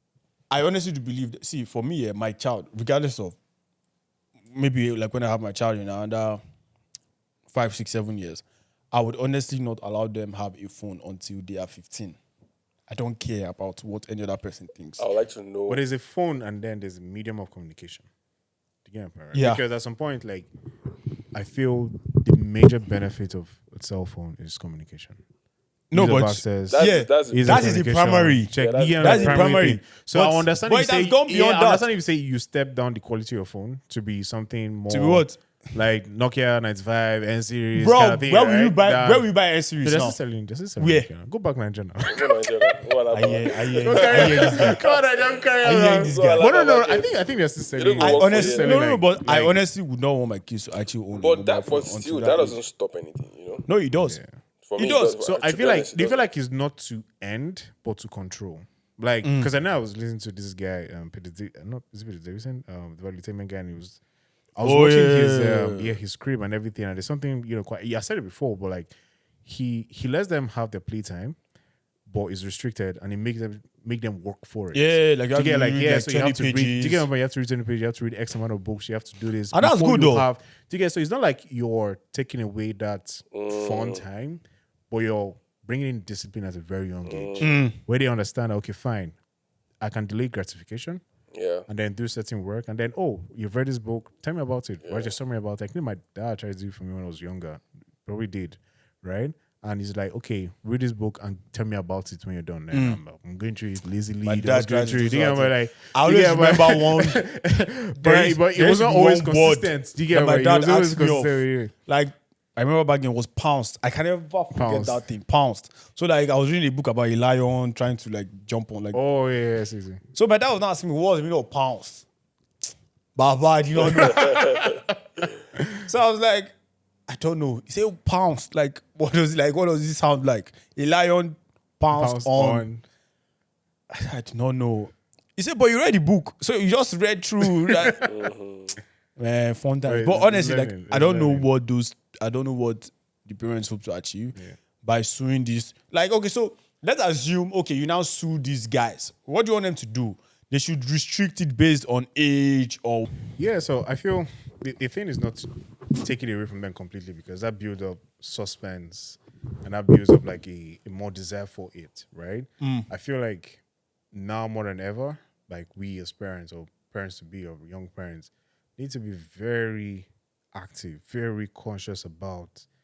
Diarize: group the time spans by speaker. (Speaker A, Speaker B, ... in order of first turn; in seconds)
Speaker A: 0.5-3.4, 4.5-6.4, 7.5-12.2, 12.9-15.1, 19.3-19.6, 25.9-31.9, 34.9-35.4, 37.7-40.2, 40.8-41.1, 43.1-44.8, 45.6-46.5, 48.0-52.6, 53.7-54.2, 54.8-55.2, 59.2-59.5, 64.6-65.9, 74.7-77.1, 79.5-80.3, 87.4-87.8, 102.7-103.0, 104.2-107.2, 108.0-119.0, 120.1-122.0, 123.2-124.4, 125.8-126.5, 127.1-132.7, 133.9-138.0, 139.2-153.1, 162.6-162.9
Speaker B: 15.0-15.8, 26.7-27.8, 28.6-29.7, 42.1-48.8, 51.1-53.6, 54.6-56.3, 83.3-84.0, 87.0-87.4, 91.3-91.7, 94.8-95.1, 124.1-124.8, 138.0-138.8
Speaker C: 15.7-18.1, 18.8-20.5, 21.3-25.2, 25.9-39.3, 39.8-42.5, 43.5-49.6, 54.0-54.3, 55.0-64.0, 64.5-68.9, 69.4-71.3, 72.1-89.1, 89.8-91.0, 91.7-111.7, 114.5-115.0, 118.9-120.0, 123.9-124.8, 131.9-132.8, 137.4-138.0, 139.8-141.5, 153.4-172.7